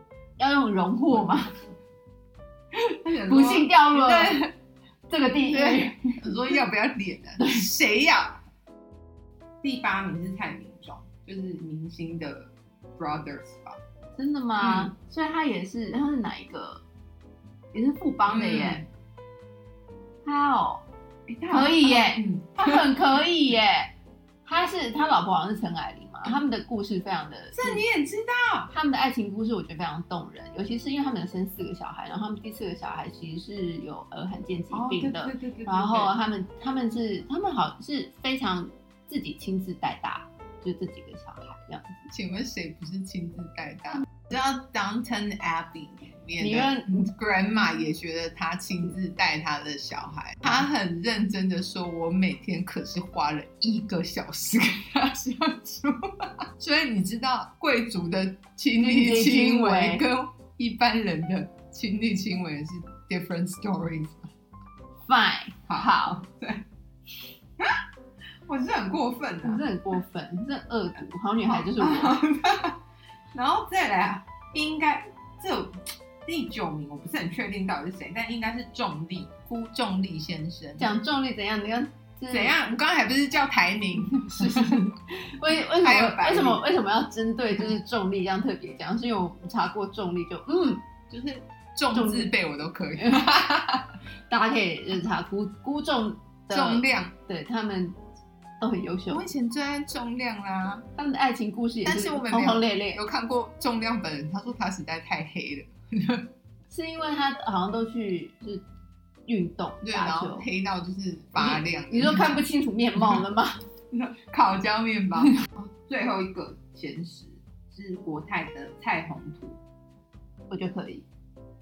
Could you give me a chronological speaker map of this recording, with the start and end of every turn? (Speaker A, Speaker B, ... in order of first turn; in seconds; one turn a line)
Speaker A: 0.4-1.5
Speaker B: 3.0-4.5
Speaker A: 3.3-4.5
Speaker A: 5.1-6.2
Speaker B: 5.4-8.4
Speaker B: 9.6-13.8
Speaker A: 14.2-16.8
Speaker B: 14.6-14.9
Speaker A: 17.7-18.8
Speaker B: 18.3-18.9
Speaker A: 20.2-20.8
Speaker B: 21.3-22.9
Speaker A: 21.5-23.9
Speaker A: 24.4-27.8
Speaker B: 27.6-28.7
Speaker A: 28.7-42.1
Speaker B: 34.7-36.1
Speaker B: 42.1-64.3
Speaker A: 46.4-47.1
Speaker A: 58.8-60.0
Speaker A: 65.1-66.2
Speaker B: 65.7-66.6
Speaker B: 68.5-69.6
Speaker A: 69.4-72.2
Speaker B: 71.4-72.8
Speaker B: 73.3-80.9
Speaker A: 80.8-82.5
Speaker B: 82.3-84.8
Speaker A: 84.3-90.8
Speaker B: 85.6-86.6
Speaker B: 91.1-93.9
Speaker A: 91.9-92.3
Speaker A: 93.0-93.3
Speaker A: 94.3-98.0
Speaker B: 96.5-97.1
Speaker A: 98.6-99.2
Speaker B: 99.1-100.8
Speaker A: 101.0-103.0
Speaker B: 101.8-106.3
Speaker A: 106.7-108.6
Speaker A: 109.3-110.5
Speaker B: 109.8-112.4
Speaker A: 111.4-113.6
Speaker B: 113.9-119.6
Speaker A: 120.5-121.0